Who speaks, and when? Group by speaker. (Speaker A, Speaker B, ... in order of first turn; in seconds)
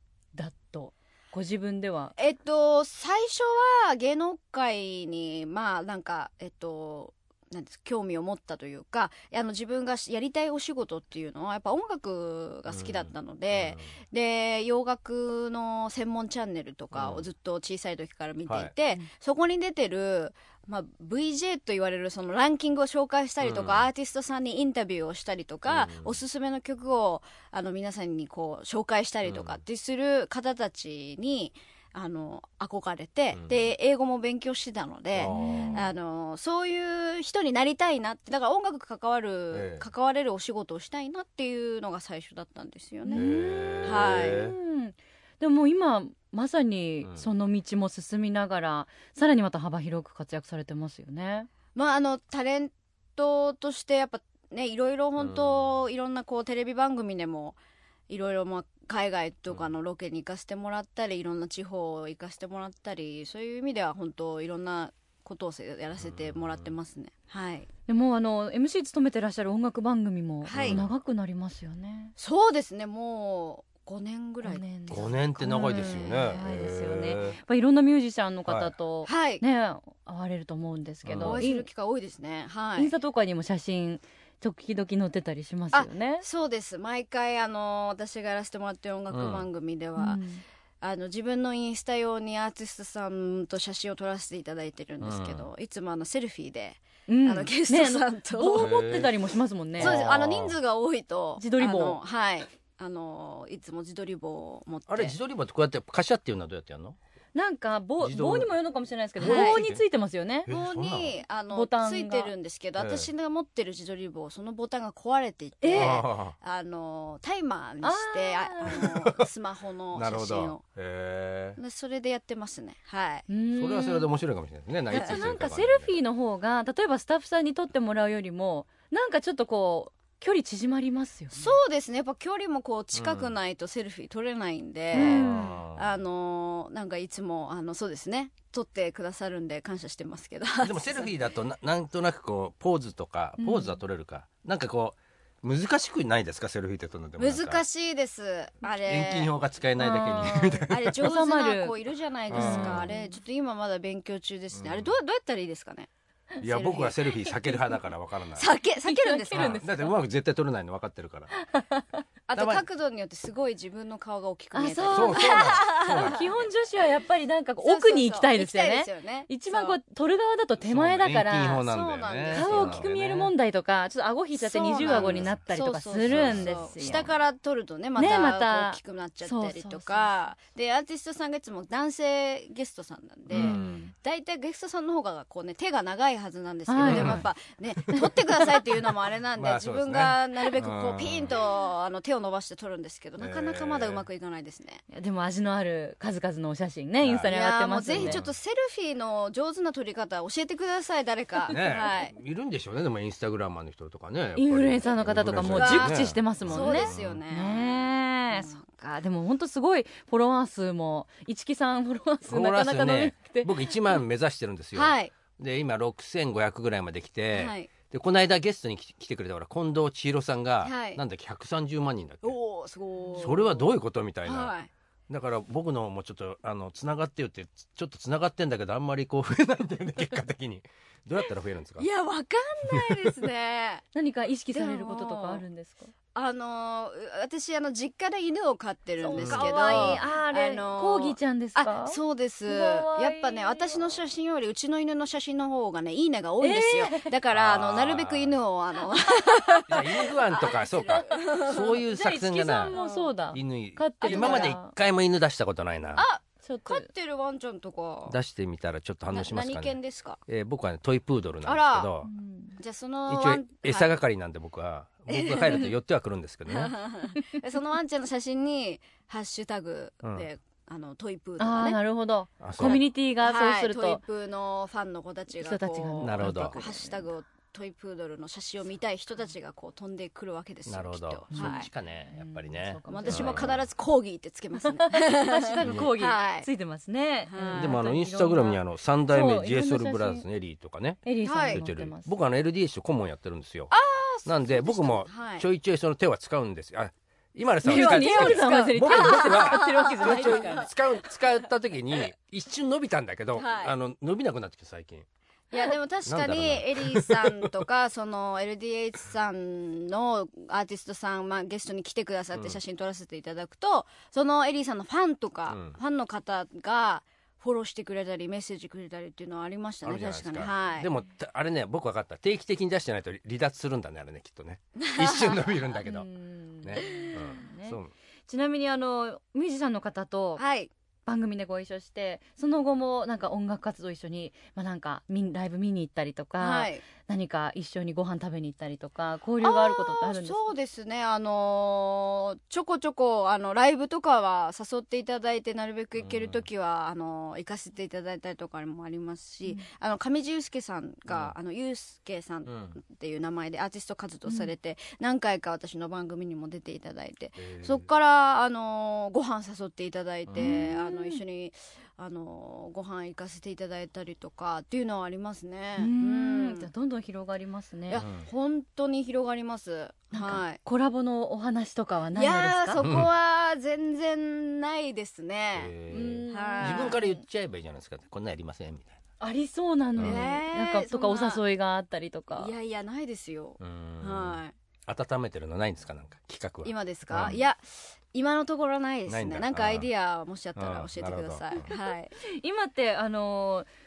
Speaker A: 0.3-2.1, 35.2-35.9, 43.1-51.5, 67.9-72.1, 74.4-81.7, 82.8-86.2, 90.0-90.4, 97.1-100.0, 101.4-102.0, 107.3-110.5, 111.5-112.3, 115.6-116.0, 117.8-118.9, 123.3-124.1, 124.9-131.4, 134.9-135.6, 143.4-143.8, 149.8-151.8, 152.3-153.1, 158.9-159.9, 161.3-162.0, 164.5-171.7, 172.3-177.1, 178.0-180.1, 183.3-183.9, 186.7-187.2, 194.9-198.2, 204.4-214.0, 233.9-235.9, 239.0-244.0, 246.4-247.1, 251.8-254.7, 256.4-256.9, 262.1-262.6, 271.4-274.0, 275.4-277.1, 281.3-283.5, 284.6-290.2, 291.1-292.1, 297.6-300.7, 325.9-330.4, 331.1-340.5, 354.3-354.5, 360.4-361.2, 365.8-368.0, 370.1-372.9, 375.9-376.9, 379.2-382.5, 391.7-393.7
Speaker B: 2.2-44.5, 51.8-57.6, 58.1-67.7, 70.5-70.8, 72.2-76.4, 79.0-79.4, 81.2-82.9, 85.7-90.2, 90.8-98.7, 99.8-105.2, 109.2-109.6, 110.5-120.6, 121.6-123.3, 131.3-141.1, 147.2-149.3, 149.9-155.9, 156.4-157.6, 158.3-159.6, 162.3-166.3, 167.6-169.8, 171.6-172.9, 174.3-194.8, 197.3-202.1, 205.4-208.9, 214.8-215.1, 217.3-217.7, 220.6-221.0, 222.2-224.7, 231.8-233.8, 234.5-235.4, 236.2-251.8, 252.6-253.2, 254.0-254.6, 255.9-258.2, 259.1-260.2, 261.4-261.9, 262.6-263.9, 265.1-265.7, 266.5-271.8, 272.6-281.7, 282.9-286.5, 287.3-287.8, 291.2-291.6, 293.7-295.5, 297.6-300.7, 303.4-303.7, 305.5-320.9, 324.8-325.6, 330.4-330.7, 336.4-336.8, 339.4-366.7, 367.9-370.6, 372.1-375.7, 376.3-377.2, 380.0-381.4, 382.4-384.6, 386.6-392.1
Speaker C: 12.7-13.9, 16.9-17.3, 18.5-18.7, 23.4-23.9, 25.7-26.2, 29.3-29.6, 35.2-35.9, 39.5-39.9, 43.1-44.6, 55.2-55.8, 66.0-66.7, 70.5-70.9, 74.9-77.4, 78.5-78.7, 81.0-81.5, 89.1-89.5, 95.0-95.5, 98.6-99.1, 99.8-100.6, 104.9-107.0, 108.0-108.5, 109.2-109.8, 110.5-111.2, 112.8-113.1, 115.7-116.3, 118.7-119.3, 119.9-121.6, 123.5-126.0, 132.9-133.3, 134.9-136.0, 140.6-147.6, 148.8-151.1, 152.3-152.9, 154.5-154.9, 156.4-158.5, 159.3-161.4, 162.3-162.6, 164.9-166.3, 170.6-173.3, 174.8-175.4, 176.1-177.1, 183.3-183.8, 186.8-187.2, 187.9-188.2, 188.7-191.4, 193.2-194.1, 197.0-197.3, 197.9-198.3, 201.5-207.2, 212.3-222.4, 223.2-224.5, 225.1-231.9, 232.7-233.1, 239.2-240.0, 247.3-248.4, 249.7-252.8, 253.3-256.1, 258.1-262.1, 263.1-266.8, 272.4-272.8, 276.0-276.6, 280.7-283.6, 285.6-285.9, 287.5-293.7, 294.2-305.1, 306.1-307.7, 312.3-312.6, 315.5-315.8, 319.9-326.1, 326.6-327.9, 346.0-346.5, 351.1-351.4, 352.5-352.8, 357.4-357.9, 360.3-360.6, 367.9-368.3, 372.8-373.1, 375.6-379.0, 380.0-380.3, 383.6-387.4, 389.1-389.9, 390.6-391.7